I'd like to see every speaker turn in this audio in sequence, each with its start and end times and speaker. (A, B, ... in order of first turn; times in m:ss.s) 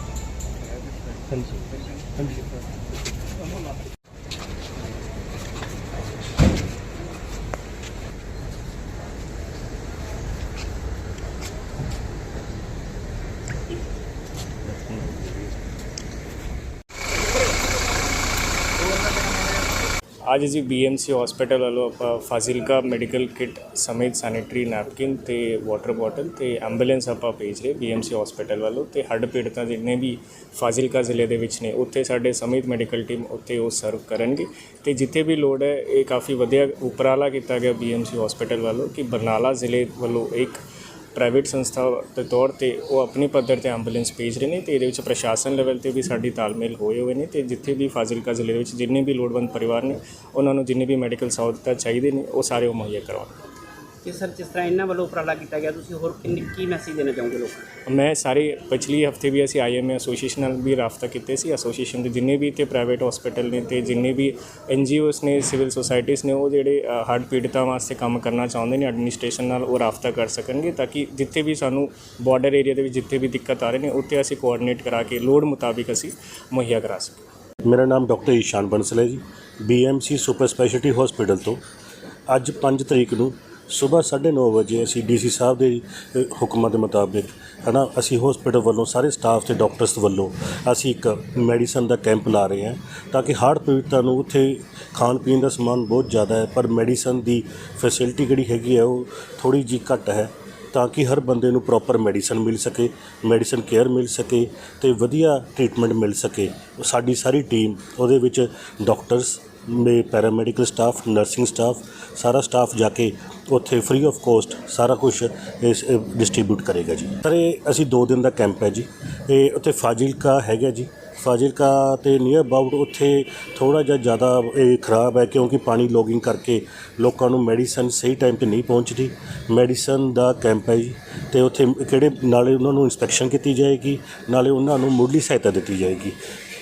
0:01.3-0:02.5 A
0:18.8-0:19.5 B
0:20.3-0:40.6 C
0:41.2-0:53.4 C
0:54.0-0:57.7 B
0:57.9-1:17.2 C
1:17.6-1:21.6 A
1:22.3-2:16.2 A